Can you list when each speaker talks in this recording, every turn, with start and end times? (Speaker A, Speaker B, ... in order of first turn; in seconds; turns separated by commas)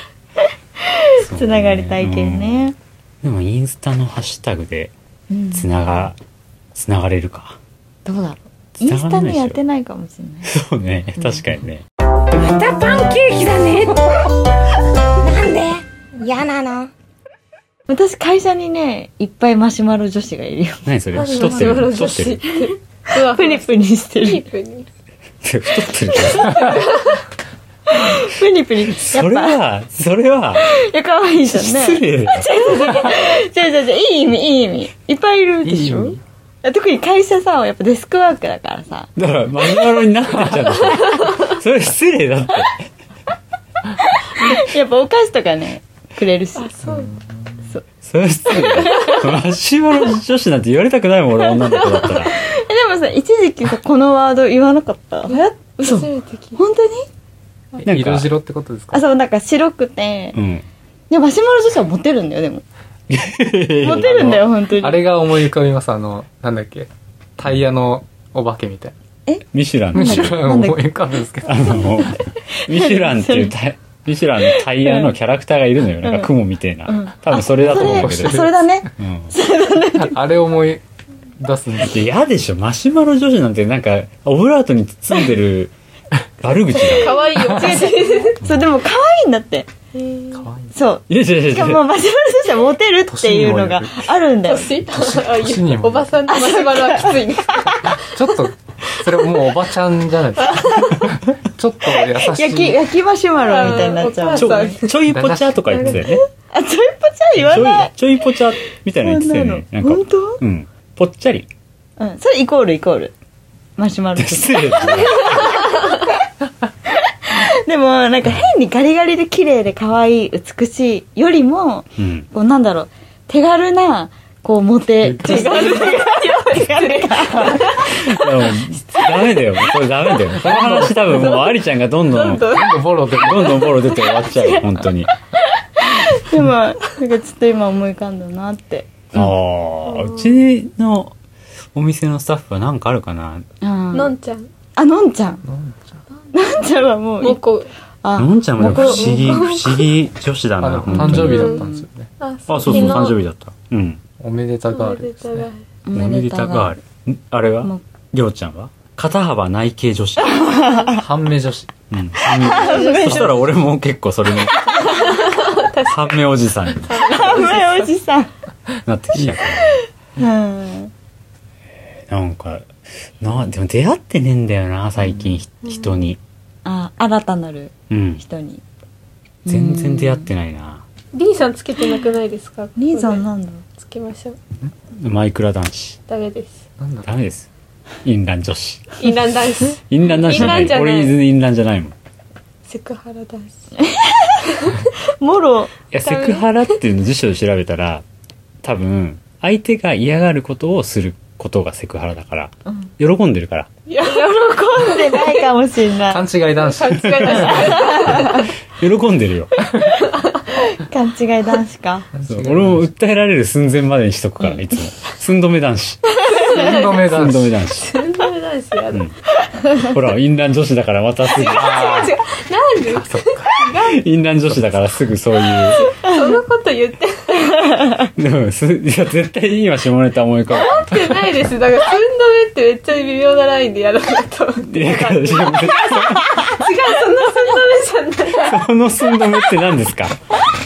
Speaker A: 0.8-2.8, Speaker B: 1.1-2.7, Speaker B: 3.2-4.9, Speaker A: 5.3-5.7, Speaker B: 5.5-6.2, Speaker B: 6.7-7.6, Speaker A: 8.0-10.5, Speaker B: 8.8-9.6, Speaker B: 10.4-11.8, Speaker A: 11.2-11.4, Speaker C: 12.5-14.0, Speaker A: 12.7-13.9, Speaker C: 15.2-15.8, Speaker A: 15.2-15.8, Speaker C: 16.4-16.9, Speaker A: 17.9-24.5, Speaker B: 20.9-22.5, Speaker D: 21.1-24.9, Speaker B: 25.4-26.8, Speaker A: 26.1-26.9, Speaker D: 26.3-27.2, Speaker A: 27.9-29.6, Speaker B: 28.9-30.7, Speaker A: 30.6-39.1, Speaker B: 31.4-32.5, Speaker E: 35.6-36.2, Speaker B: 39.1-42.9, Speaker A: 44.3-46.7, Speaker D: 46.5-47.1, Speaker E: 46.8-47.6, Speaker B: 48.0-52.4, Speaker A: 48.5-49.3, Speaker A: 52.2-57.1, Speaker D: 55.3-56.6, Speaker B: 57.8-58.3, Speaker E: 57.9-59.0, Speaker A: 58.9-60.4, Speaker B: 60.3-60.6, Speaker A: 61.1-62.6, Speaker B: 63.1-64.5, Speaker A: 63.8-65.1, Speaker E: 64.7-68.9, Speaker B: 69.5-70.5, Speaker A: 69.9-70.9, Speaker E: 69.9-72.1, Speaker B: 71.4-79.3, Speaker A: 72.0-73.5, Speaker A: 74.5-75.1, Speaker A: 76.0-76.3, Speaker A: 76.9-80.2, Speaker E: 77.6-78.8, Speaker E: 79.9-80.8, Speaker E: 81.4-82.0, Speaker B: 81.8-85.7, Speaker B: 86.4-87.3, Speaker D: 86.8-88.3, Speaker E: 87.4-87.8, Speaker A: 87.4-89.7, Speaker D: 89.9-90.4, Speaker E: 90.3-90.7, Speaker A: 90.7-94.8, Speaker B: 91.1-91.8, Speaker E: 93.1-94.1, Speaker D: 94.4-98.0, Speaker E: 94.9-96.1, Speaker A: 96.3-98.0, Speaker E: 97.7-102.8, Speaker D: 100.7-101.0, Speaker A: 101.8-104.8, Speaker D: 103.4-105.0, Speaker B: 104.3-106.2, Speaker E: 105.1-106.0, Speaker D: 105.7-106.1, Speaker A: 106.5-108.4, Speaker B: 107.4-111.5, Speaker A: 109.0-110.4, Speaker A: 112.0-113.1, Speaker A: 113.8-115.9, Speaker B: 114.2-115.6, Speaker A: 116.8-128.0, Speaker B: 122.0-122.3, Speaker E: 125.0-125.8, Speaker D: 125.2-127.9, Speaker B: 127.8-132.6, Speaker E: 130.3-131.4, Speaker D: 131.1-132.9, Speaker E: 132.4-133.7, Speaker B: 133.2-135.1, Speaker A: 134.1-139.3, Speaker B: 139.1-141.1, Speaker D: 139.9-140.3, Speaker B: 141.7-143.4, Speaker A: 143.6-144.1, Speaker D: 143.9-144.5, Speaker A: 144.8-145.4, Speaker E: 145.4-146.0, Speaker A: 146.3-147.4, Speaker D: 147.2-147.7, Speaker A: 148.0-149.5, Speaker B: 148.2-151.6, Speaker D: 148.6-149.9, Speaker E: 150.6-152.1, Speaker A: 151.0-151.8, Speaker D: 151.1-151.7, Speaker D: 152.2-153.2, Speaker B: 152.5-154.0, Speaker A: 152.7-153.1, Speaker E: 154.2-155.5, Speaker D: 154.7-155.6, Speaker A: 155.8-156.7, Speaker B: 155.9-160.7, Speaker A: 160.2-161.0, Speaker E: 160.8-161.7, Speaker B: 161.9-165.2, Speaker A: 162.2-163.5, Speaker D: 162.5-163.3, Speaker E: 162.6-162.9, Speaker A: 164.7-165.0, Speaker D: 164.8-167.9, Speaker B: 165.8-167.3, Speaker A: 166.9-168.3, Speaker B: 168.8-169.8, Speaker A: 169.7-170.9, Speaker B: 172.1-176.2, Speaker A: 176.6-178.6, Speaker B: 177.9-178.2, Speaker A: 179.4-180.3, Speaker B: 179.5-180.8, Speaker D: 181.1-183.2, Speaker A: 182.8-183.6, Speaker D: 183.8-184.4, Speaker B: 184.9-186.0, Speaker D: 186.1-186.6, Speaker E: 186.8-187.1, Speaker B: 187.0-187.5, Speaker B: 188.0-189.0, Speaker D: 189.0-191.2, Speaker B: 189.9-191.9, Speaker D: 192.6-193.5, Speaker A: 193.8-195.7, Speaker D: 194.5-194.9, Speaker B: 195.9-198.0, Speaker D: 196.0-196.6, Speaker B: 198.6-203.7, Speaker D: 203.9-205.5, Speaker A: 204.0-206.3, Speaker E: 206.1-207.9, Speaker D: 206.5-208.4, Speaker B: 207.0-209.5, Speaker A: 207.5-208.5, Speaker E: 209.6-210.0, Speaker D: 210.1-210.7, Speaker A: 210.6-212.1, Speaker E: 212.1-212.9, Speaker B: 212.2-216.1, Speaker A: 216.2-216.7, Speaker D: 216.3-217.1, Speaker E: 216.3-217.6, Speaker B: 217.1-217.9, Speaker D: 217.8-219.0, Speaker B: 219.8-222.1, Speaker D: 221.2-224.0, Speaker E: 221.4-222.2, Speaker E: 222.9-223.7, Speaker B: 223.8-225.8, Speaker D: 225.7-227.7, Speaker A: 226.0-226.3, Speaker A: 227.4-228.1, Speaker B: 228.0-231.0, Speaker D: 230.5-238.7, Speaker B: 234.6-236.4, Speaker B: 238.4-240.2